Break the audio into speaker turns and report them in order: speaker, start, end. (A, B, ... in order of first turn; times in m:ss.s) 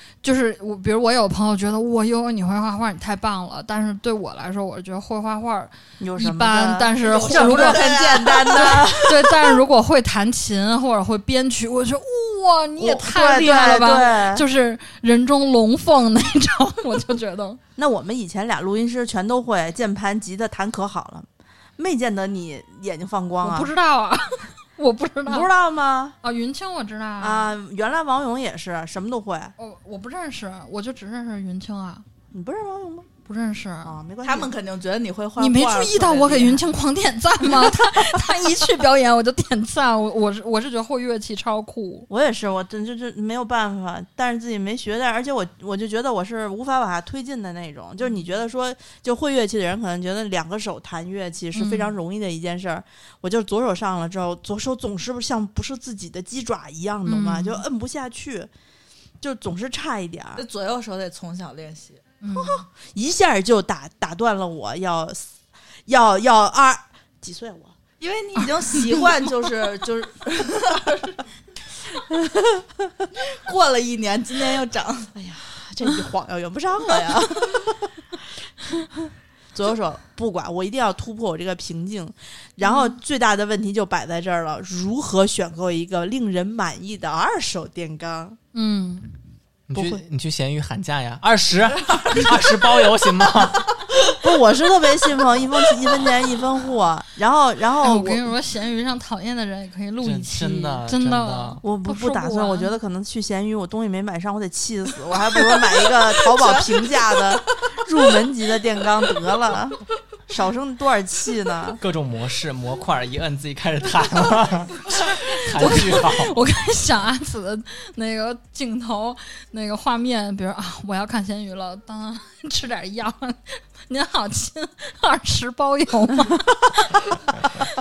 0:00.2-0:17.6 A
0:06.0-0:09.3 B
0:07.0-0:09.0 C
0:12.8-0:14.5 B
0:17.8-0:23.7 B
0:23.4-0:25.5 A
0:25.3-0:26.2 B
0:26.2-0:27.5 A
0:27.2-0:29.5 B
0:29.6-0:32.0 A
0:32.3-0:33.1 B
0:33.3-0:34.0 A
0:33.8-0:34.5 B
0:34.2-0:36.7 C
0:35.4-0:42.1 A
0:42.1-0:58.5 B
0:51.6-0:51.9 A
0:57.1-0:57.6 A
0:59.2-1:00.5 B
1:00.4-1:02.0 C
1:02.2-1:02.6 A
1:02.9-1:05.3 B
1:05.9-1:07.8 B
1:08.0-1:11.1 C
1:08.8-1:10.2 B
1:12.1-1:13.1 B
1:13.3-1:15.1 C
1:15.1-1:18.2 B
1:19.5-1:28.4 B
1:22.6-1:22.9 A
1:28.5-1:29.1 A
1:29.7-1:33.8 D
1:29.7-1:30.0 B
1:34.1-1:38.2 B
1:37.8-1:42.8 A
1:40.0-1:41.6 D
1:41.6-1:51.8 B
1:46.3-1:47.4 C
1:51.8-1:56.4 D
1:55.4-2:07.0 A